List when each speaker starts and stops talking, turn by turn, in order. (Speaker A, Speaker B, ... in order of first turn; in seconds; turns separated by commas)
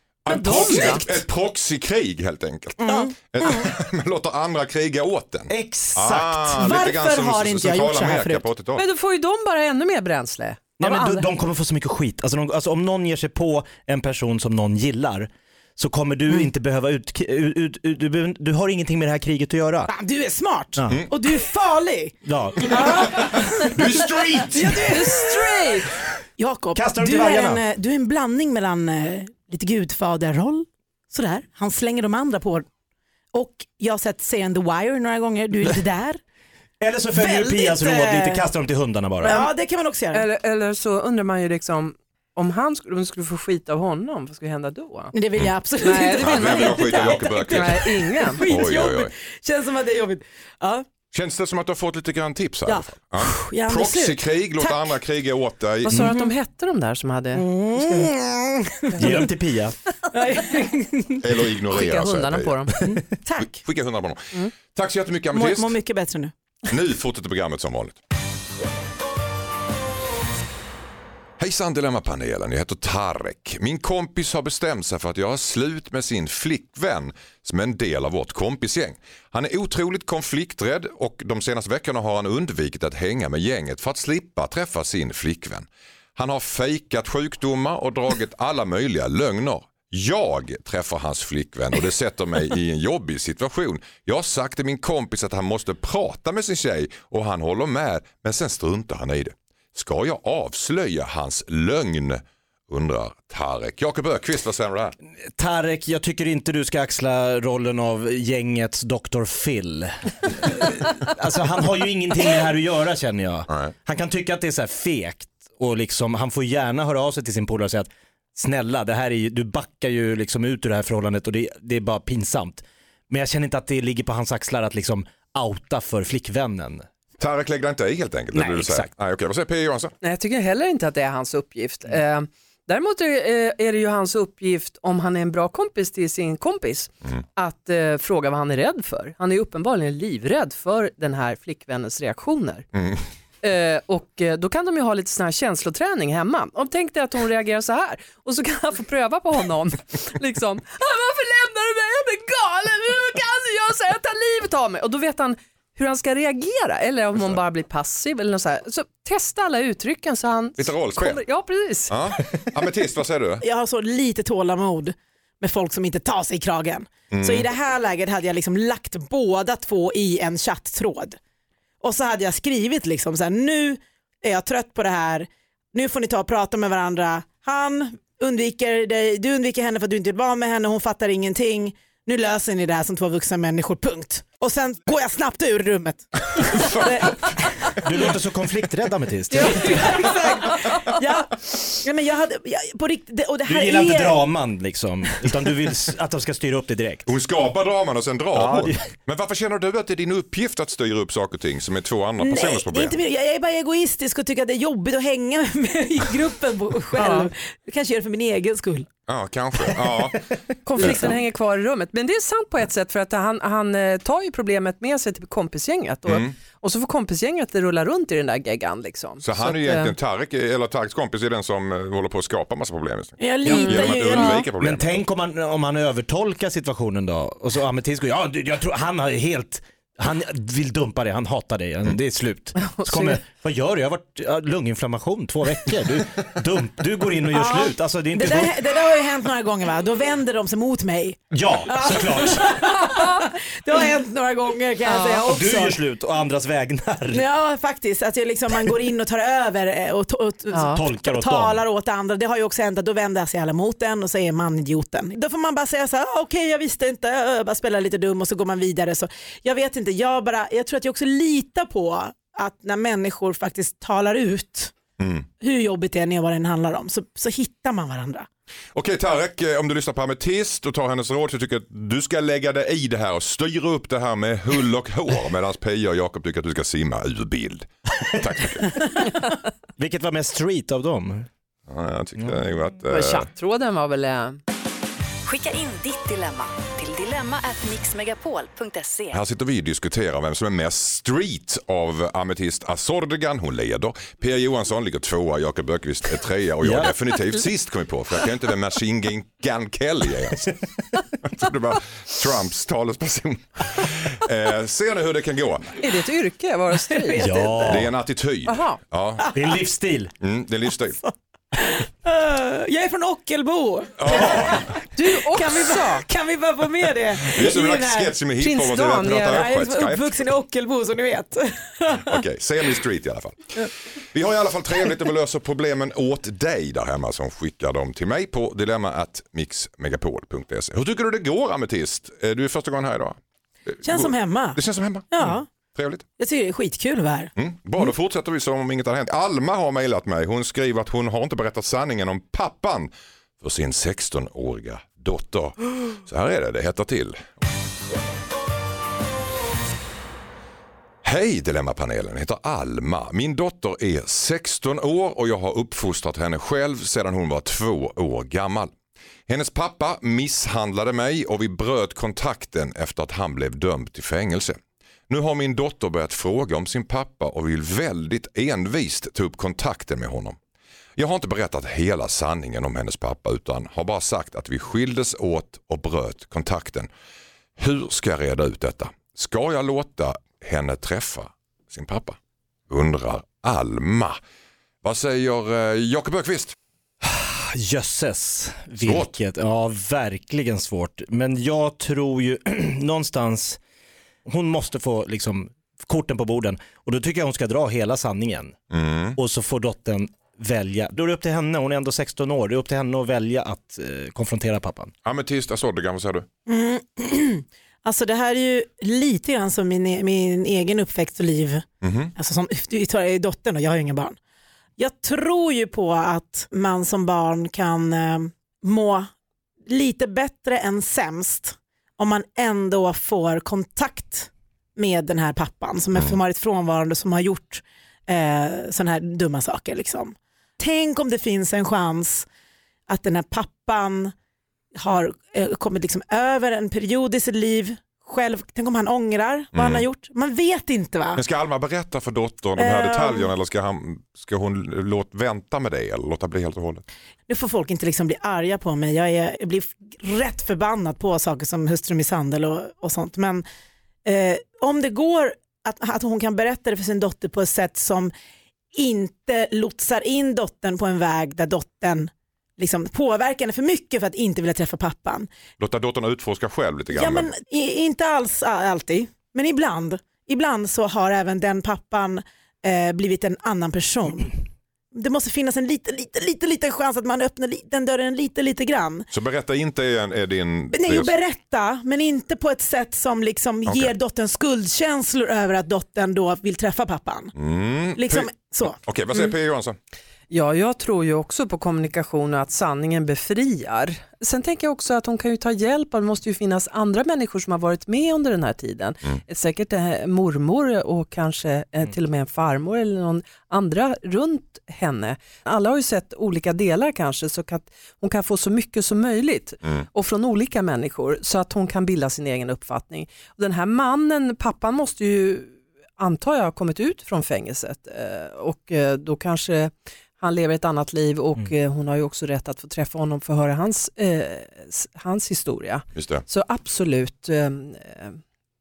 Speaker A: 0.2-8.8, Speaker B: 0.3-1.1, Speaker C: 0.6-0.9, Speaker C: 2.8-3.7, Speaker D: 5.5-6.6, Speaker C: 6.6-8.4, Speaker B: 8.8-11.2, Speaker D: 10.8-19.9, Speaker C: 19.9-23.9, Speaker D: 20.8-21.0, Speaker D: 22.2-22.8, Speaker A: 22.8-25.0, Speaker C: 24.5-25.7, Speaker B: 24.7-25.9, Speaker C: 26.4-32.7, Speaker D: 26.8-27.6, Speaker C: 33.3-36.2, Speaker D: 36.8-39.5, Speaker C: 37.1-38.5, Speaker C: 39.2-40.2, Speaker B: 40.1-45.1, Speaker C: 45.1-50.9, Speaker B: 45.8-48.4, Speaker A: 46.2-49.1, Speaker A: 51.1-56.1, Speaker C: 52.7-54.8, Speaker B: 55.8-58.0, Speaker C: 56.0-56.3, Speaker C: 57.3-59.3, Speaker D: 59.0-59.8, Speaker C: 60.1-61.2, Speaker A: 61.2-62.7, Speaker B: 61.7-62.7, Speaker C: 62.8-63.6, Speaker A: 63.4-65.8, Speaker C: 65.3-66.3, Speaker A: 66.7-68.0, Speaker A: 71.4-104.9, Speaker D: 105.4-126.8, Speaker A: 127.2-129.9, Speaker D: 128.3-128.9, Speaker B: 130.0-142.7, Speaker A: 142.8-143.0, Speaker B: 143.4-162.1, Speaker A: 160.6-161.2, Speaker A: 161.9-163.4, Speaker C: 163.4-171.2, Speaker A: 167.1-167.5, Speaker C: 171.8-187.8, Speaker A: 186.3-187.3, Speaker D: 187.8-190.0, Speaker C: 189.3-194.2, Speaker D: 193.4-197.1, Speaker A: 197.0-203.0, Speaker D: 198.3-198.9, Speaker C: 202.2-208.9, Speaker B: 206.9-207.3, Speaker A: 209.1-211.1, Speaker B: 210.7-219.9, Speaker C: 210.8-211.1, Speaker A: 216.1-216.3, Speaker A: 219.2-225.0, Speaker C: 223.2-224.5, Speaker B: 223.4-224.3, Speaker D: 224.6-238.6, Speaker B: 232.7-233.2, Speaker C: 237.3-245.8, Speaker D: 241.3-242.6, Speaker B: 242.9-243.2, Speaker B: 244.8-245.3, Speaker D: 245.2-247.2, Speaker C: 247.1-264.7, Speaker B: 250.5-250.8, Speaker D: 250.7-251.6, Speaker A: 265.0-265.3, Speaker C: 265.4-268.2, Speaker A: 268.7-278.9, Speaker D: 279.8-281.3, Speaker A: 281.7-283.3, Speaker B: 282.9-284.4, Speaker E: 285.2-289.2, Speaker A: 289.1-300.6, Speaker D: 296.6-296.9, Speaker A: 301.2-305.8, Speaker B: 305.8-307.7, Speaker D: 307.1-307.9, Speaker A: 307.6-309.3, Speaker B: 308.4-308.8, Speaker D: 309.3-310.1, Speaker A: 310.2-311.0, Speaker C: 311.0-318.1, Speaker A: 314.0-314.8, Speaker B: 314.9-316.1, Speaker A: 317.2-320.3, Speaker B: 318.4-319.5, Speaker C: 319.3-322.2, Speaker A: 322.1-336.0, Speaker C: 333.8-334.6, Speaker C: 335.1-335.5, Speaker C: 336.2-337.3, Speaker A: 337.4-347.3, Speaker A: 351.0-358.7, Speaker A: 359.3-370.4, Speaker A: 370.9-376.9, Speaker A: 377.6-382.2, Speaker A: 382.7-384.2, Speaker A: 384.8-386.6, Speaker D: 387.0-393.6, Speaker A: 388.8-389.1, Speaker D: 394.2-398.6, Speaker A: 398.7-399.2, Speaker D: 399.1-404.9, Speaker A: 405.0-406.3, Speaker C: 406.4-411.6, Speaker A: 411.8-412.1, Speaker C: 412.1-414.1, Speaker C: 414.8-419.1, Speaker C: 419.6-432.2, Speaker C: 432.9-434.1, Speaker C: 434.8-441.2, Speaker A: 439.5-439.9, Speaker A: 441.1-446.8, Speaker C: 442.6-443.3, Speaker C: 447.3-453.4, Speaker C: 454.0-458.1, Speaker C: 458.7-465.3, Speaker A: 465.6-467.3, Speaker C: 466.9-474.4, Speaker C: 474.9-479.1, Speaker A: 479.1-481.1, Speaker C: 480.7-487.3, Speaker A: 483.6-483.9, Speaker A: 487.4-489.8, Speaker C: 487.9-488.8, Speaker B: 490.3-528.2, Speaker A: 526.0-526.2